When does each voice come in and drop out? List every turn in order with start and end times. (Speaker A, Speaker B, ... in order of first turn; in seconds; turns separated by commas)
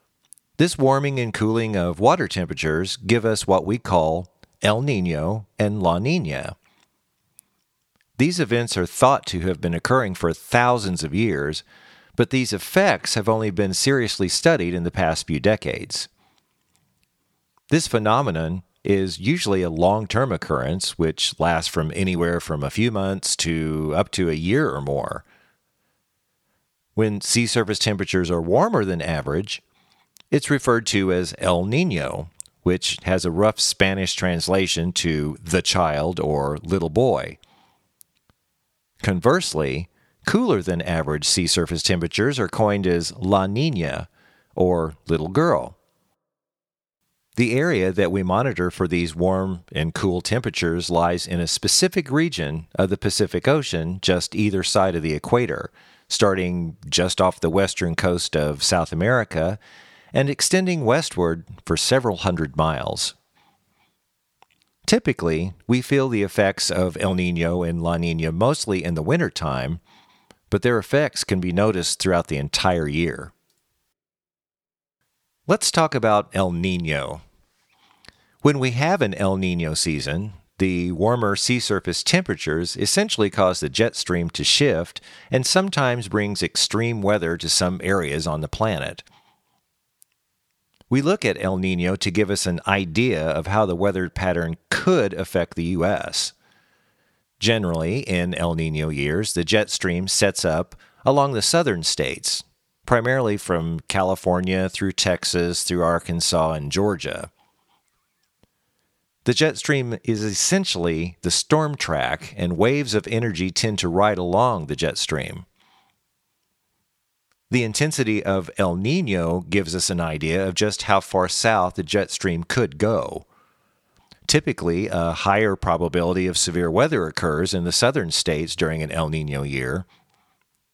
Speaker A: 0.6-6.5, Speaker A: 8.2-11.6, Speaker A: 12.2-16.1, Speaker A: 17.7-25.2, Speaker A: 27.0-29.6, Speaker A: 30.3-37.4, Speaker A: 39.0-45.8, Speaker A: 47.4-59.6, Speaker A: 60.1-63.1, Speaker A: 64.8-69.8, Speaker A: 70.5-73.3, Speaker A: 75.5-77.2, Speaker A: 78.4-89.0, Speaker A: 90.9-96.3, Speaker A: 97.4-107.3, Speaker A: 109.2-115.5, Speaker A: 117.5-123.2, Speaker A: 124.3-129.9